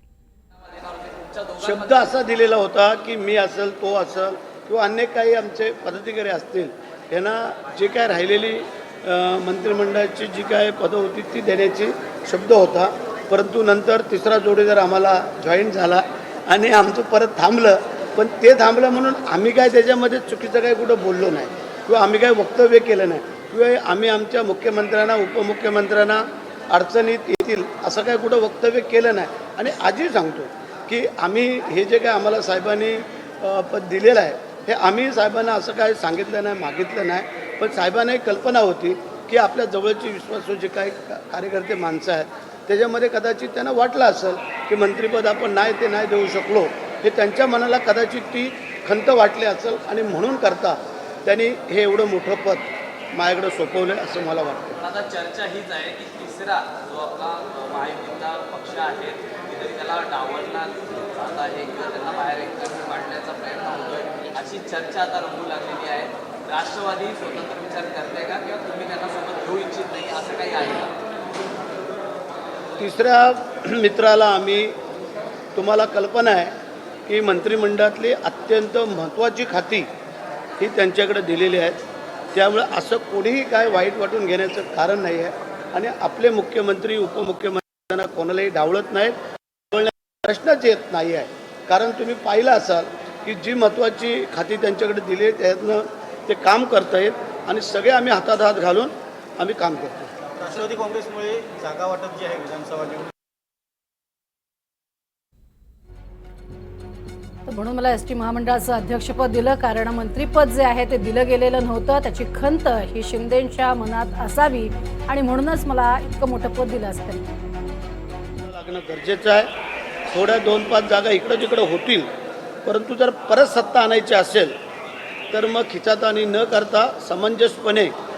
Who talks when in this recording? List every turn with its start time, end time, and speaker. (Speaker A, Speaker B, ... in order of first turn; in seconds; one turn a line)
Speaker A: 0.7-2.1
Speaker B: 1.6-54.7
Speaker A: 54.8-70.9
Speaker B: 72.8-74.8
Speaker B: 75.5-76.5
Speaker B: 77.1-79.9
Speaker B: 80.6-81.8
Speaker B: 82.3-89.1
Speaker B: 89.7-100.1
Speaker C: 100.3-103.1
Speaker D: 107.5-117.3
Speaker B: 118.4-119.5
Speaker B: 120.1-122.1
Speaker B: 122.6-124.5
Speaker B: 125.3-127.9